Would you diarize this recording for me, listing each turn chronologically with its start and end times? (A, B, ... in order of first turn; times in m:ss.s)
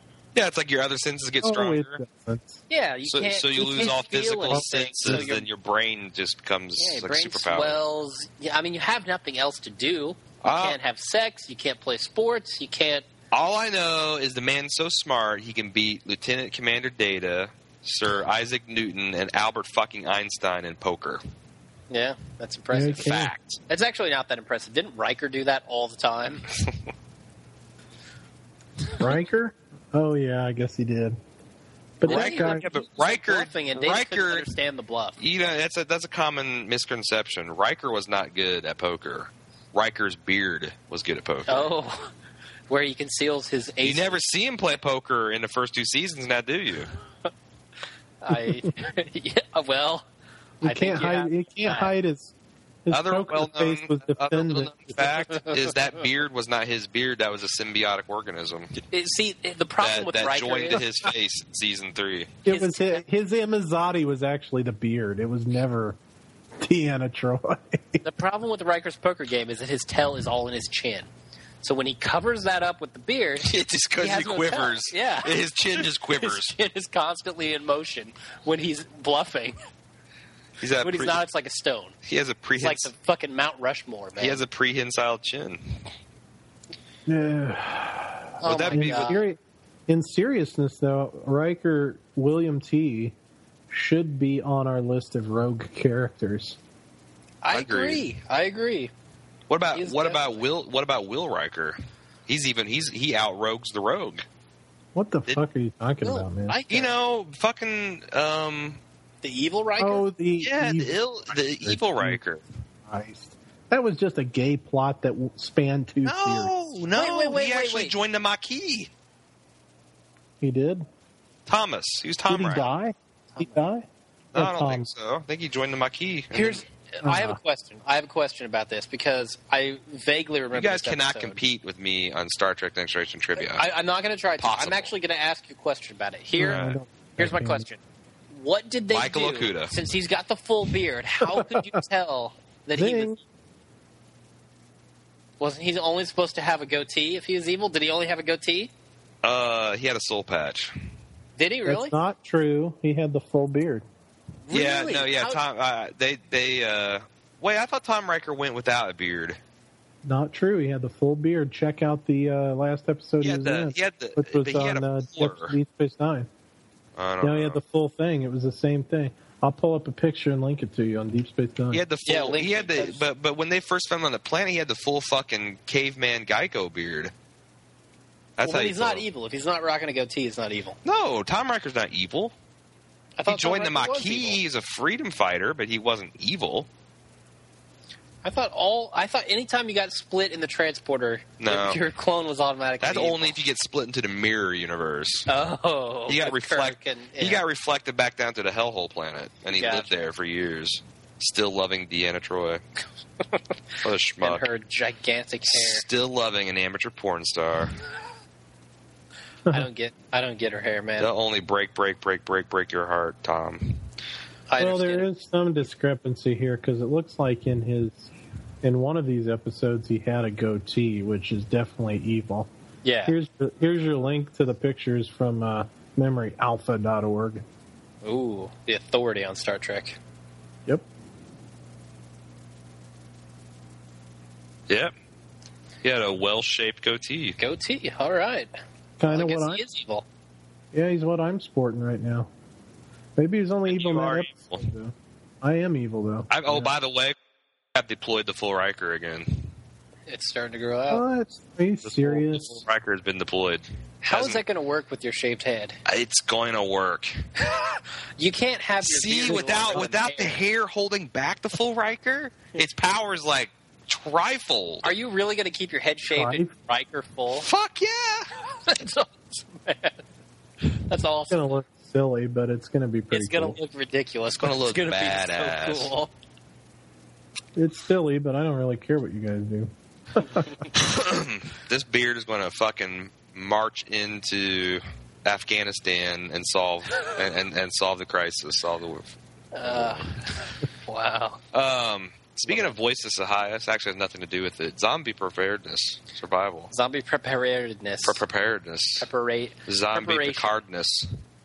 0:00.3-0:02.0 A
0:01.4-0:02.6 B
0:02.7-0:05.4 C
0:03.1-0:07.8 A
0:04.5-0:05.3 B
0:06.8-0:13.0 C
0:10.4-0:10.8 A
0:13.3-0:21.2 A
0:21.9-0:26.5 C
0:22.7-0:23.3 B
0:23.0-0:23.6 A
0:29.0-0:31.2 B
0:32.0-0:32.6 B
0:32.0-0:35.2 C
0:32.0-0:34.4 A
0:35.2-0:41.7 A
0:41.5-0:42.1 C
0:42.7-0:44.2 C
0:43.8-0:46.9 A
0:48.2-0:50.1 C
0:48.3-0:48.7 B
0:50.6-0:52.3 B
0:50.6-0:51.9 C
0:52.8-0:55.2 B
0:52.9-0:58.8 A
0:58.9-1:00.8 C
0:59.8-1:02.3 A
1:02.4-1:06.0 B
1:02.5-1:03.0 C
1:06.6-1:08.0 B
1:08.0-1:11.1 C
1:11.6-1:19.6 C
1:13.4-1:16.6 A
1:20.6-1:21.2 A
1:20.8-1:22.0 C
1:22.0-1:22.9 A
1:22.6-1:24.4 C
1:24.2-1:25.8 A
1:27.0-1:33.1 B
1:28.4-1:29.2 C
1:28.4-1:29.2 A
1:33.7-1:36.6 B
1:37.4-1:38.9 C
1:37.5-1:38.0 A
1:39.5-1:44.2 A
1:39.7-1:40.4 C
1:44.9-1:46.6 B
1:46.0-1:46.9 C
1:46.7-1:48.8 A
1:49.2-1:50.0 C
1:49.8-1:51.0 B
1:50.4-1:52.4 A
1:51.6-1:52.2 B
1:52.8-1:56.5 B
1:56.0-1:58.9 A
1:56.9-1:57.9 C
2:00.4-2:00.9 B
2:01.5-2:02.6 A
2:02.3-2:04.9 B
2:03.4-2:03.6 C
2:04.3-2:06.6 A
2:06.3-2:11.4 C
2:07.0-2:07.4 B
2:10.5-2:13.6 A
2:13.4-2:17.8 C
2:14.4-2:14.9 A
2:16.4-2:17.7 B
2:16.4-2:16.8 A
2:18.3-2:23.1 C
2:18.9-2:19.7 A
2:22.8-2:23.2 B
2:25.4-2:28.7 C
2:29.2-2:30.7 A
2:31.4-2:32.0 C
2:31.6-2:33.8 B
2:34.5-2:35.4 C
2:34.5-2:39.4 A
2:40.0-2:46.3 B
2:43.2-2:45.5 A
2:47.0-2:47.6 A
2:47.2-2:51.8 B
2:51.7-2:57.1 A
2:52.0-2:53.0 C
2:58.4-2:59.0 A
2:58.4-3:00.8 C
3:00.8-3:02.3 A
3:03.2-3:04.4 C
3:03.3-3:06.7 A
3:08.2-3:13.4 C
3:11.4-3:11.8 A
3:12.8-3:15.3 A
3:15.3-3:17.4 C
3:16.1-3:22.6 A
3:19.6-3:19.9 C
3:23.8-3:24.4 A
3:24.2-3:25.8 C
3:25.5-3:27.8 A
3:29.5-3:31.1 C
3:31.0-3:33.8 A
3:34.5-3:35.1 C
3:34.6-3:38.1 B
3:38.6-3:42.5 B
3:42.8-3:43.2 C
3:43.1-3:47.4 B
3:48.0-3:50.0 C
3:55.8-3:57.4 A
3:57.4-3:58.5 C
3:59.0-3:59.6 B
3:59.0-4:00.0 C
4:00.7-4:02.3 B
4:03.2-4:06.7 B
4:03.7-4:04.6 A
4:06.3-4:07.1 A
4:07.7-4:09.5 A
4:10.1-4:11.0 C
4:10.9-4:12.6 B
4:11.8-4:14.4 A
4:14.0-4:15.8 C
4:15.8-4:17.2 A
4:17.4-4:20.4 C
4:18.8-4:24.9 A
4:24.8-4:27.5 C
4:26.1-4:26.5 B
4:27.3-4:28.3 A
4:28.6-4:30.0 C
4:30.7-4:31.5 C
4:31.3-4:33.6 B
4:33.1-4:36.1 C
4:34.4-4:35.9 A
4:37.6-4:40.6 B
4:40.7-4:50.1 A
4:49.5-4:51.4 C
4:51.5-4:56.7 A
4:56.7-4:58.2 C
4:58.0-4:59.0 A
4:59.0-5:00.5 C
4:59.7-5:01.1 A